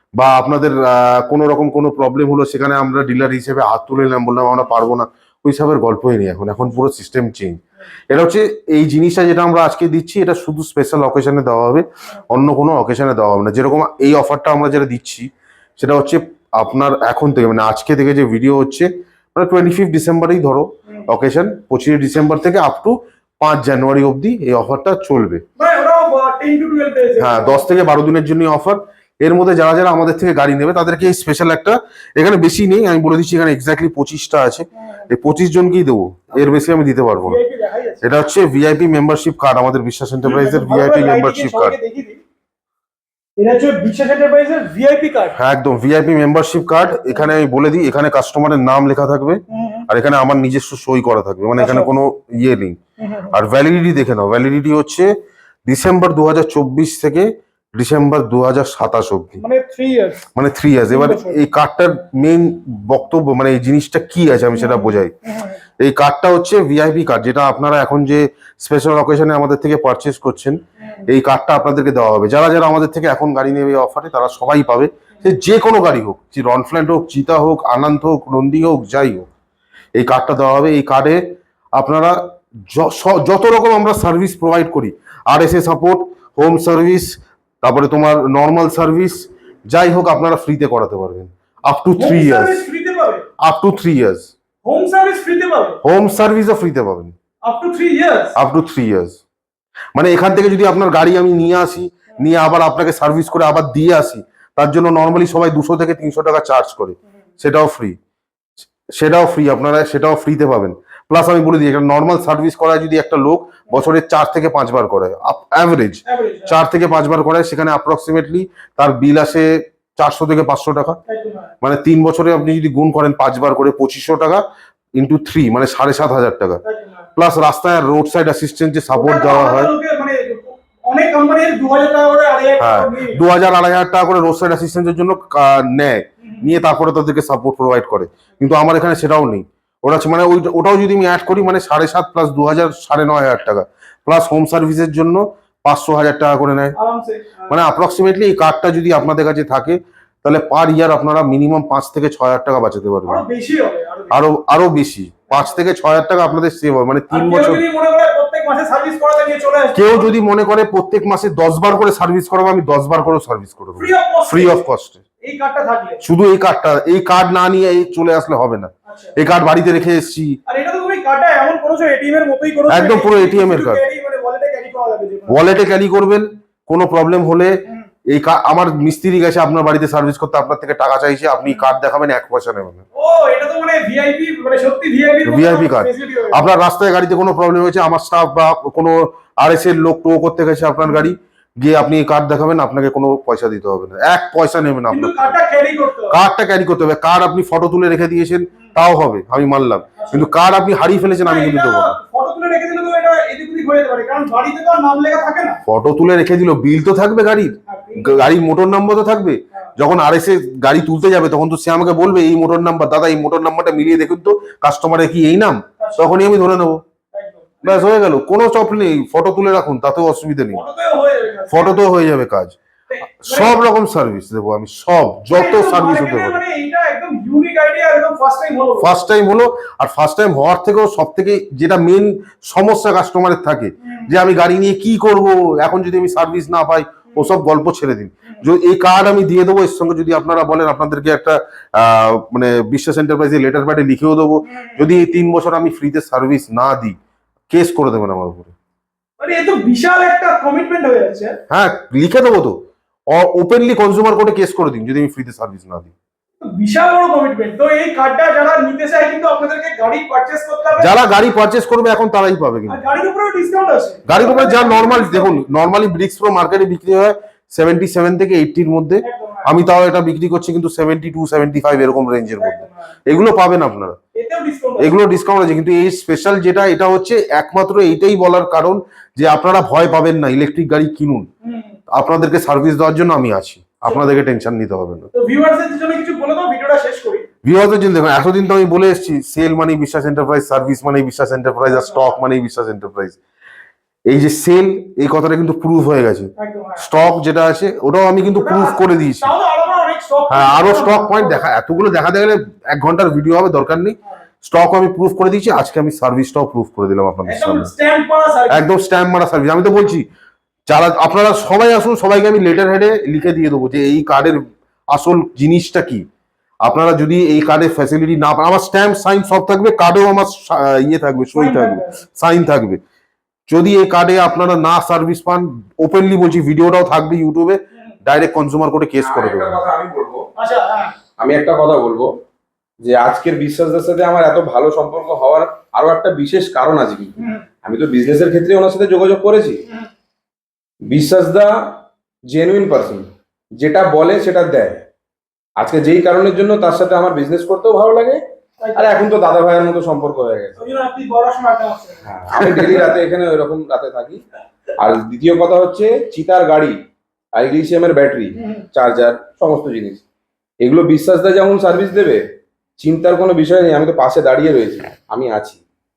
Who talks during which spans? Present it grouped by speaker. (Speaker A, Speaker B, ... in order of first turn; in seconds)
Speaker A: 0.2-25.4, 27.2-37.4, 38.0-41.7, 45.4-52.8, 53.3-55.1, 55.6-59.4, 60.3-65.1, 65.8-79.3, 79.9-81.2, 81.7-92.6, 93.4-94.3, 95.8-97.1, 98.3-99.2, 99.9-108.0, 108.9-121.0, 121.6-124.4, 125.0-126.6, 127.2-129.7, 132.6-146.8, 147.5-153.2, 154.1-157.6, 159.7-165.0, 166.0-170.4, 172.7-173.8, 175.3-182.8, 185.2-195.3, 196.1-201.9, 205.7-216.8, 217.6-220.6, 221.5-222.6, 223.2-226.4, 228.8-246.9, 247.5-248.5, 251.5-252.6, 253.1-255.9, 260.8-262.8, 264.1-274.0, 274.8-281.3, 281.9-285.1, 287.4-293.2, 294.1-299.3, 300.3-307.7, 308.5-310.1, 310.7-316.0, 316.6-322.8, 323.5-329.6
Speaker B: 25.6-27.7, 37.2-38.0, 40.2-42.2, 43.4-45.4, 47.0-47.3, 49.5-49.9, 51.6-51.9, 53.0-53.3, 59.4-60.2, 60.9-61.4, 64.5-65.5, 91.9-93.2, 94.6-95.8, 97.4-98.3, 116.0-116.6, 121.1-121.5, 126.6-127.0, 128.9-133.2, 146.8-147.5, 153.1-154.2, 157.1-160.2, 163.8-164.6, 165.2-166.0, 168.9-169.1, 170.5-175.4, 182.9-186.6, 190.8-191.1, 194.9-196.2, 200.0-200.3, 201.2-205.6, 207.7-208.3, 215.8-216.2, 217.1-217.9, 220.5-221.8, 222.9-223.6, 225.3-229.0, 233.8-234.1, 244.6-244.9, 249.2-251.4, 256.4-261.0, 262.7-265.4, 269.0-269.5, 272.4-272.9, 274.1-275.0, 281.4-281.7, 285.1-287.2, 291.7-292.2, 296.4-296.8, 298.3-301.4, 307.2-308.7, 321.3-322.0, 330.4-330.9, 337.2-337.4, 348.6-349.0, 350.6-352.9, 358.4-358.6
Speaker C: 329.0-330.2, 331.2-332.1, 332.8-339.6, 340.9-344.9, 345.6-348.2, 348.7-350.6, 352.1-354.2, 354.8-356.8, 357.3-360.0, 360.6-362.2, 362.8-365.6